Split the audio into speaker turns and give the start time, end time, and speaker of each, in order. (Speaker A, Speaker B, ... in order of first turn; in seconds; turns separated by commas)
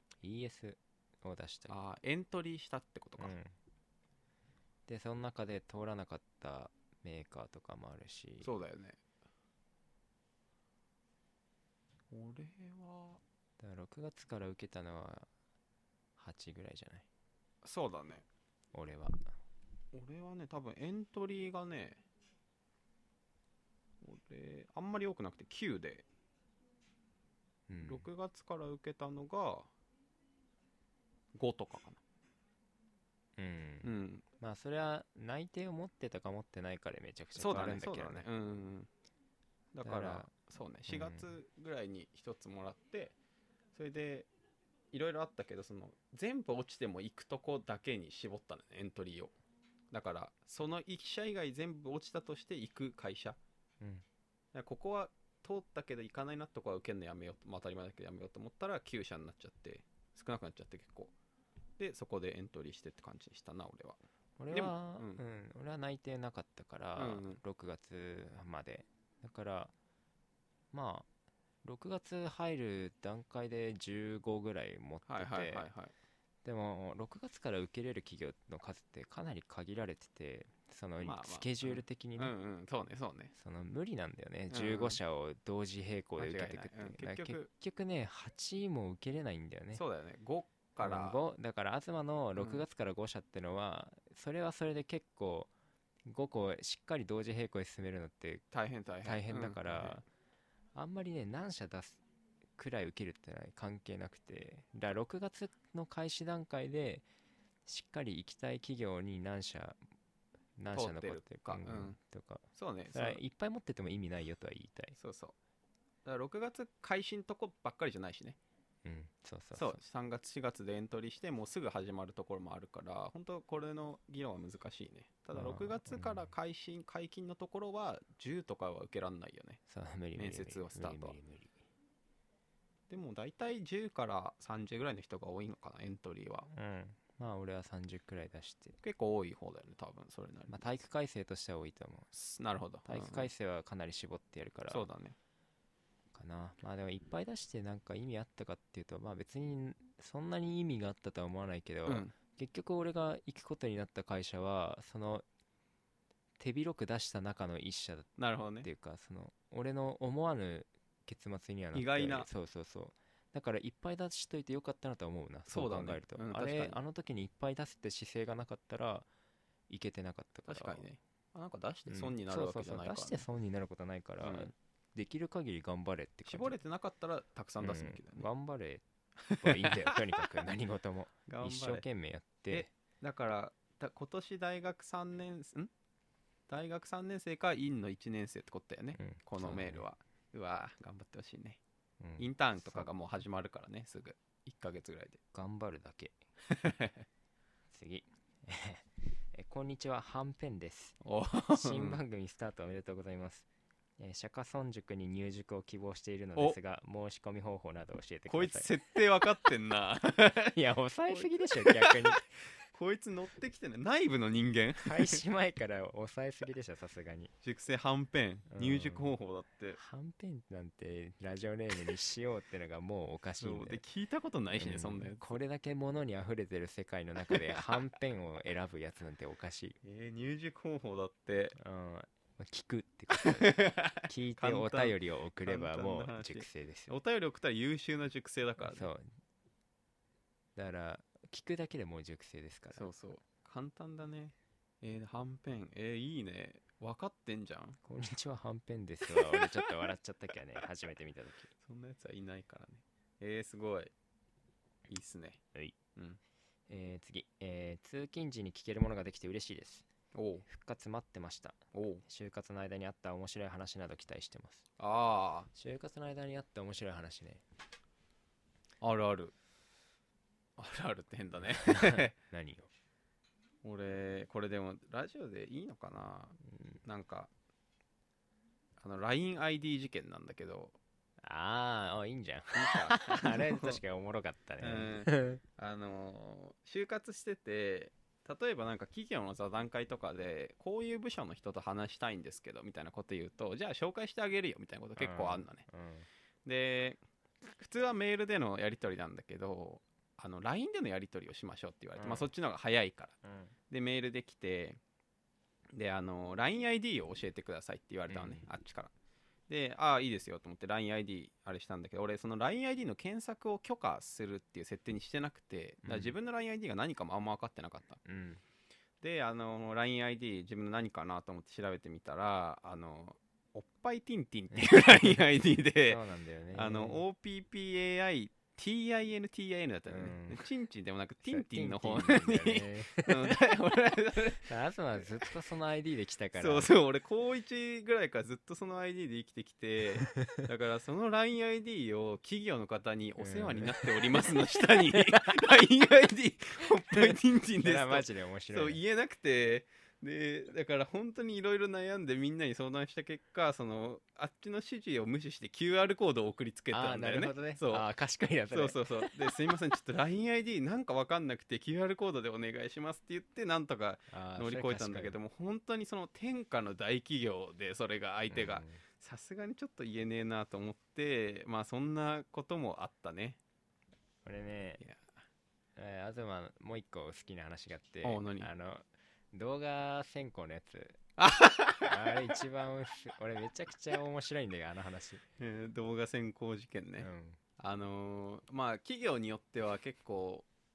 Speaker A: 0.2-1.7, Speaker B: 1.7-3.4, Speaker A: 3.2-3.5, Speaker A: 4.9-8.5, Speaker B: 8.4-9.0, Speaker B: 12.1-13.2, Speaker A: 13.6-15.3, Speaker A: 16.2-17.0, Speaker B: 17.6-18.2, Speaker A: 18.7-19.3, Speaker B: 19.9-22.0, Speaker B: 24.0-26.1, Speaker A: 27.7-28.1, Speaker B: 27.8-29.7, Speaker B: 31.3-32.0, Speaker A: 33.4-38.2, Speaker B: 33.8-34.2, Speaker B: 37.4-38.9, Speaker B: 39.7-43.1, Speaker A: 39.8-40.3, Speaker A: 40.9-41.3, Speaker B: 43.7-44.3, Speaker B: 44.9-49.3, Speaker B: 49.9-53.4, Speaker B: 54.5-61.1, Speaker B: 61.8-64.0, Speaker A: 64.4-69.7, Speaker B: 64.5-65.2, Speaker B: 67.0-67.4, Speaker A: 70.7-71.1, Speaker A: 71.6-75.7, Speaker B: 75.1-75.9, Speaker A: 76.4-82.3, Speaker B: 81.0-83.3, Speaker A: 83.3-89.8, Speaker B: 84.5-85.0, Speaker B: 86.2-87.5, Speaker B: 89.7-91.2, Speaker A: 90.8-95.5, Speaker B: 92.4-92.6, Speaker A: 96.0-98.5, Speaker B: 98.5-100.0, Speaker A: 99.0-100.0, Speaker A: 100.7-102.0, Speaker A: 102.6-107.0, Speaker A: 107.7-109.8, Speaker A: 110.6-115.0, Speaker B: 110.7-112.0, Speaker B: 112.5-113.2, Speaker B: 115.0-115.3, Speaker B: 116.0-118.4, Speaker A: 118.8-119.8, Speaker B: 119.5-129.6, Speaker A: 125.3-126.3, Speaker A: 129.7-131.6, Speaker B: 130.2-131.2, Speaker B: 132.9-136.5, Speaker A: 136.5-138.8, Speaker B: 138.8-140.6, Speaker A: 140.5-142.1, Speaker B: 142.1-143.3, Speaker A: 142.9-144.8, Speaker B: 144.7-145.2, Speaker A: 146.1-155.2, Speaker B: 151.8-152.1, Speaker A: 156.4-158.1, Speaker B: 158.2-158.7, Speaker A: 158.6-169.1, Speaker B: 161.7-162.3, Speaker B: 165.5-166.8, Speaker A: 169.7-170.8, Speaker B: 170.4-173.2, Speaker A: 171.9-176.6, Speaker B: 174.2-174.5, Speaker B: 176.3-178.3, Speaker A: 177.6-178.8, Speaker B: 179.2-180.3, Speaker A: 179.4-182.7, Speaker B: 181.3-181.8, Speaker B: 182.5-185.7, Speaker B: 186.5-191.6, Speaker A: 189.0-189.8, Speaker A: 192.0-192.9, Speaker B: 192.2-195.2, Speaker A: 195.3-196.2, Speaker B: 196.5-197.0, Speaker A: 197.7-200.9, Speaker B: 201.0-202.0, Speaker A: 201.5-203.4, Speaker A: 204.0-208.7, Speaker B: 208.3-210.6, Speaker A: 210.5-212.3, Speaker B: 211.1-212.2, Speaker B: 212.7-215.2, Speaker A: 214.8-217.3, Speaker B: 217.4-219.8, Speaker A: 218.5-219.1, Speaker A: 219.8-223.8, Speaker B: 223.4-225.2, Speaker A: 224.5-229.8, Speaker B: 227.3-227.7, Speaker B: 229.8-231.6, Speaker A: 231.6-236.9, Speaker B: 233.1-238.9, Speaker A: 238.6-239.1, Speaker A: 240.6-242.9, Speaker B: 242.7-247.8, Speaker A: 247.8-251.5, Speaker B: 249.2-249.7, Speaker B: 251.6-253.9, Speaker B: 254.9-255.4, Speaker A: 256.7-259.9, Speaker B: 260.1-260.4, Speaker A: 260.4-264.6, Speaker B: 261.7-262.0, Speaker B: 264.8-265.5, Speaker A: 265.5-267.4, Speaker B: 268.8-269.3, Speaker B: 270.6-272.1, Speaker A: 271.6-272.7, Speaker B: 273.6-277.3, Speaker B: 278.8-280.8, Speaker A: 281.2-285.4, Speaker B: 282.5-283.8, Speaker B: 284.6-295.7, Speaker A: 295.0-296.1, Speaker B: 296.4-303.1, Speaker A: 302.0-302.3, Speaker A: 303.2-303.5, Speaker B: 303.7-304.8, Speaker B: 305.7-308.9, Speaker A: 308.1-308.4, Speaker B: 309.5-318.0, Speaker A: 315.8-316.1, Speaker A: 318.0-318.4, Speaker B: 319.0-326.0, Speaker A: 324.5-325.2, Speaker A: 325.9-327.0, Speaker B: 326.5-334.5, Speaker A: 329.9-330.4, Speaker A: 331.2-333.3, Speaker A: 334.5-336.7, Speaker B: 336.4-357.9, Speaker A: 340.0-340.4, Speaker A: 343.2-345.4, Speaker A: 346.9-348.8, Speaker A: 356.7-359.3, Speaker B: 358.5-373.4, Speaker A: 364.1-365.2, Speaker A: 368.3-368.8, Speaker A: 374.2-374.8, Speaker A: 375.8-381.1, Speaker B: 378.0-378.5, Speaker B: 381.2-382.3, Speaker A: 381.8-385.2, Speaker B: 385.4-390.4, Speaker A: 387.0-387.4